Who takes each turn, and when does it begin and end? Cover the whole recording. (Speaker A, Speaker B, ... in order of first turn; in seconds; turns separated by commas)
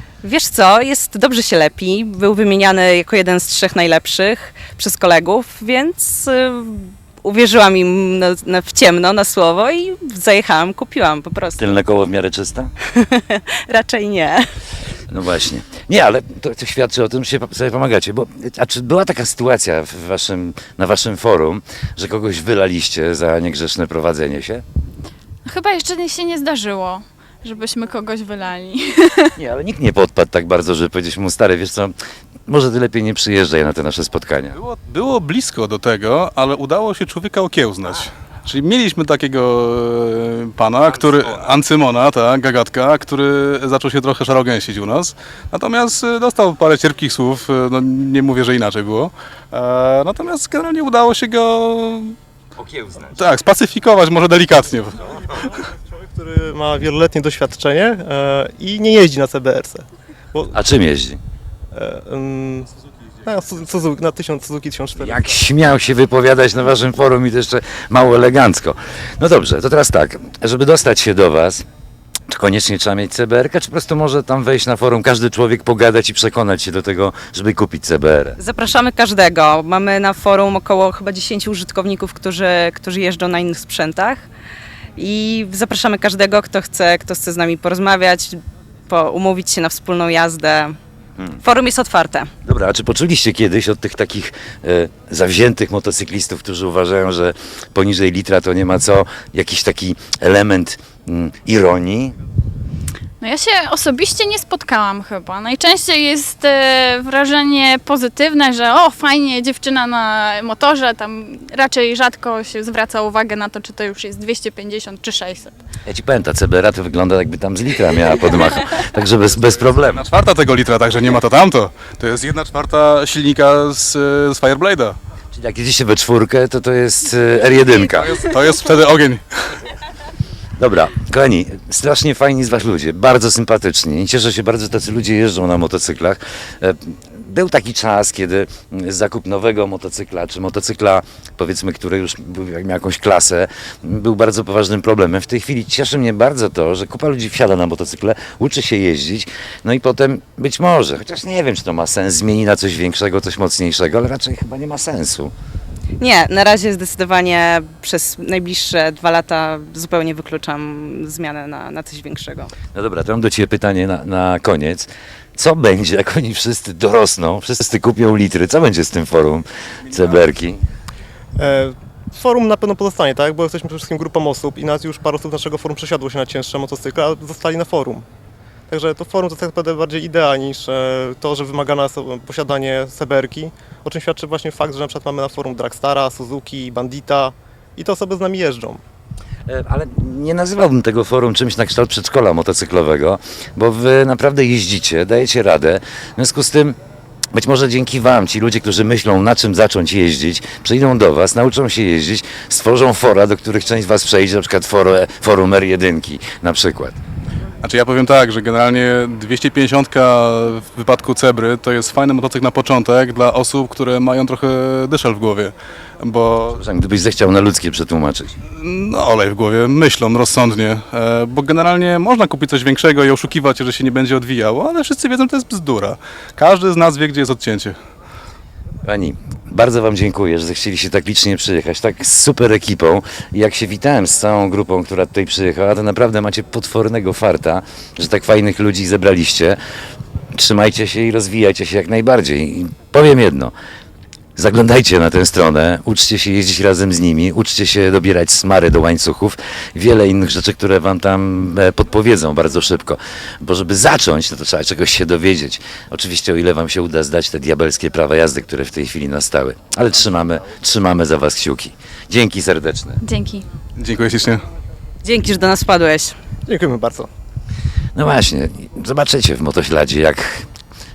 Speaker A: 0.2-11.7, Speaker B: 11.6-12.7, Speaker A: 12.9-14.5, Speaker B: 15.1-24.6, Speaker C: 25.4-29.3, Speaker B: 29.4-31.9, Speaker B: 32.5-34.6, Speaker D: 34.5-52.1, Speaker B: 52.6-53.1, Speaker D: 53.2-55.2, Speaker E: 55.9-60.5, Speaker B: 60.5-61.2, Speaker E: 61.7-62.7, Speaker E: 63.2-65.2, Speaker B: 65.0-71.7, Speaker B: 72.3-78.4, Speaker A: 78.4-84.2, Speaker A: 85.0-90.8, Speaker A: 91.4-92.3, Speaker B: 92.4-102.2, Speaker C: 103.2-115.6, Speaker B: 115.8-120.0, Speaker D: 119.9-125.0, Speaker B: 125.3-128.2, Speaker D: 127.9-129.2, Speaker B: 130.6-155.3, Speaker A: 156.0-162.5, Speaker B: 162.7-170.6, Speaker E: 171.4-178.0, Speaker E: 178.7-188.8, Speaker B: 189.5-196.8, Speaker B: 197.3-207.0, Speaker D: 207.6-216.6, Speaker B: 216.5-218.3, Speaker D: 218.5-227.8, Speaker B: 228.8-239.6, Speaker B: 240.3-243.5, Speaker B: 244.3-263.0, Speaker C: 263.0-263.4, Speaker D: 263.8-264.4, Speaker A: 265.0-266.1, Speaker E: 266.5-267.1, Speaker B: 267.9-270.4